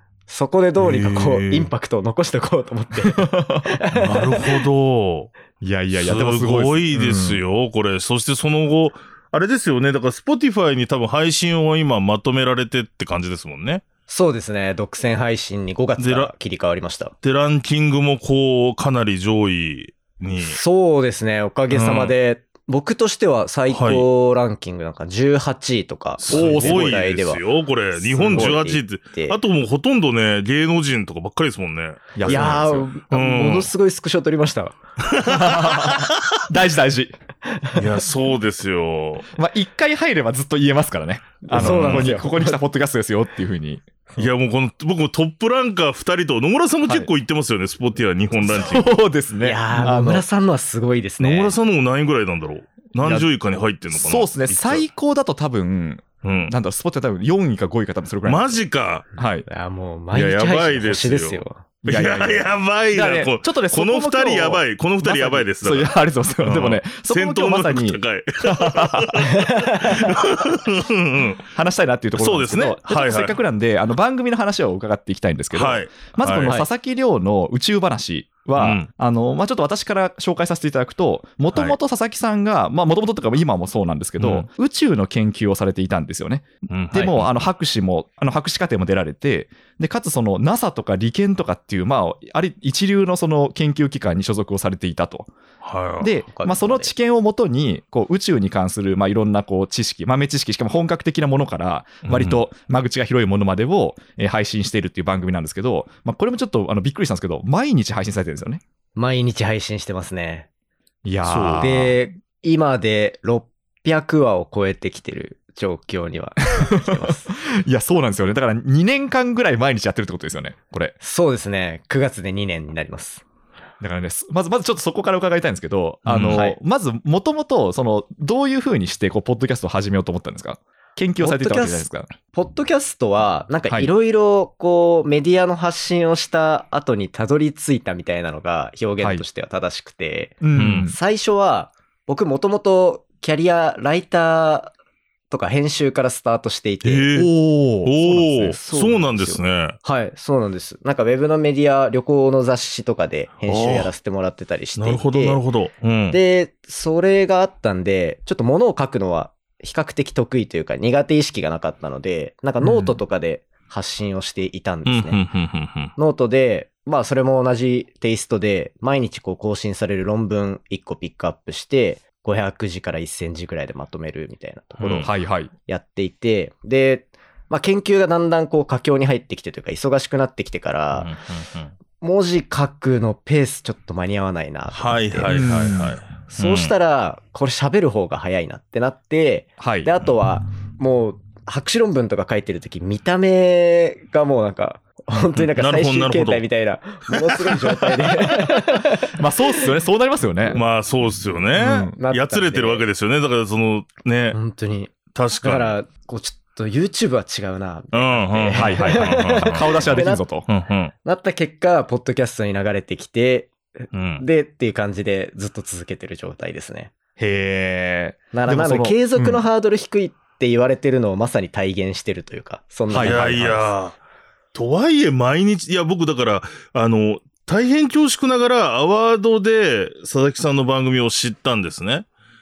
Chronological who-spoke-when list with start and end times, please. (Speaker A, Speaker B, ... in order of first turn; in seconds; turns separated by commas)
Speaker A: 0.3-4.6, Speaker B: 0.8-1.7, Speaker C: 3.1-3.7, Speaker B: 3.9-5.3, Speaker C: 5.6-7.4, Speaker B: 5.9-13.8, Speaker A: 14.1-17.1, Speaker B: 16.0-16.3, Speaker B: 17.2-20.6, Speaker A: 20.4-27.4, Speaker B: 21.7-22.1, Speaker B: 23.7-24.0, Speaker B: 26.2-33.7, Speaker C: 26.3-27.0, Speaker A: 27.9-29.4, Speaker C: 28.3-28.6, Speaker C: 32.2-32.8, Speaker A: 32.2-34.8, Speaker B: 35.1-36.4, Speaker C: 35.3-37.1, Speaker A: 37.5-37.8, Speaker B: 37.8-39.3, Speaker C: 39.3-43.9, Speaker A: 41.4-42.6, Speaker B: 41.5-42.1, Speaker B: 44.1-48.9, Speaker C: 48.3-50.2, Speaker A: 49.4-51.5, Speaker B: 51.2-54.8, Speaker C: 53.0-53.3, Speaker C: 53.9-58.6, Speaker B: 56.2-56.5, Speaker B: 58.2-59.0, Speaker C: 59.1-59.5, Speaker A: 59.5-61.6, Speaker B: 60.1-71.5, Speaker C: 61.8-69.2, Speaker A: 69.3-70.0, Speaker C: 71.5-95.3, Speaker B: 72.2-73.4, Speaker B: 75.5-76.7, Speaker B: 78.5-78.9, Speaker B: 84.2-84.5, Speaker B: 86.7-87.3, Speaker B: 95.6-96.1, Speaker C: 96.0-108.6, Speaker A: 96.3-96.9, Speaker B: 102.0-102.4, Speaker A: 109.0-110.5, Speaker C: 111.0-112.0, Speaker B: 111.2-111.7, Speaker A: 111.6-117.3, Speaker C: 116.7-120.9, Speaker A: 121.0-123.2, Speaker C: 123.8-132.1, Speaker B: 126.0-126.4, Speaker A: 126.3-126.6, Speaker A: 131.2-144.7, Speaker C: 140.4-140.9, Speaker B: 140.6-140.9, Speaker A: 145.3-147.1, Speaker B: 146.8-147.3, Speaker C: 147.1-148.5, Speaker B: 147.8-149.8, Speaker A: 148.2-155.4, Speaker B: 153.5-153.9, Speaker B: 154.8-156.2, Speaker A: 156.1-165.2, Speaker B: 164.8-165.9, Speaker A: 165.9-175.1, Speaker B: 174.8-175.1, Speaker C: 175.0-175.5, Speaker A: 175.7-181.1, Speaker B: 180.9-181.7, Speaker A: 182.0-185.4, Speaker B: 184.7-186.7, Speaker C: 185.3-186.0, Speaker A: 186.3-199.1, Speaker C: 189.6-189.9, Speaker B: 195.3-196.4, Speaker B: 197.1-198.1, Speaker C: 199.1-200.6, Speaker B: 200.5-204.4, Speaker C: 201.6-201.9, Speaker A: 202.0-202.8, Speaker A: 204.3-210.3, Speaker B: 205.1-205.8, Speaker B: 207.9-210.9, Speaker C: 208.5-210.5, Speaker A: 211.0-216.9, Speaker B: 213.9-214.2, Speaker C: 217.2-219.4, Speaker A: 218.3-223.8, Speaker C: 222.9-223.2, Speaker B: 223.0-224.0, Speaker B: 224.5-232.1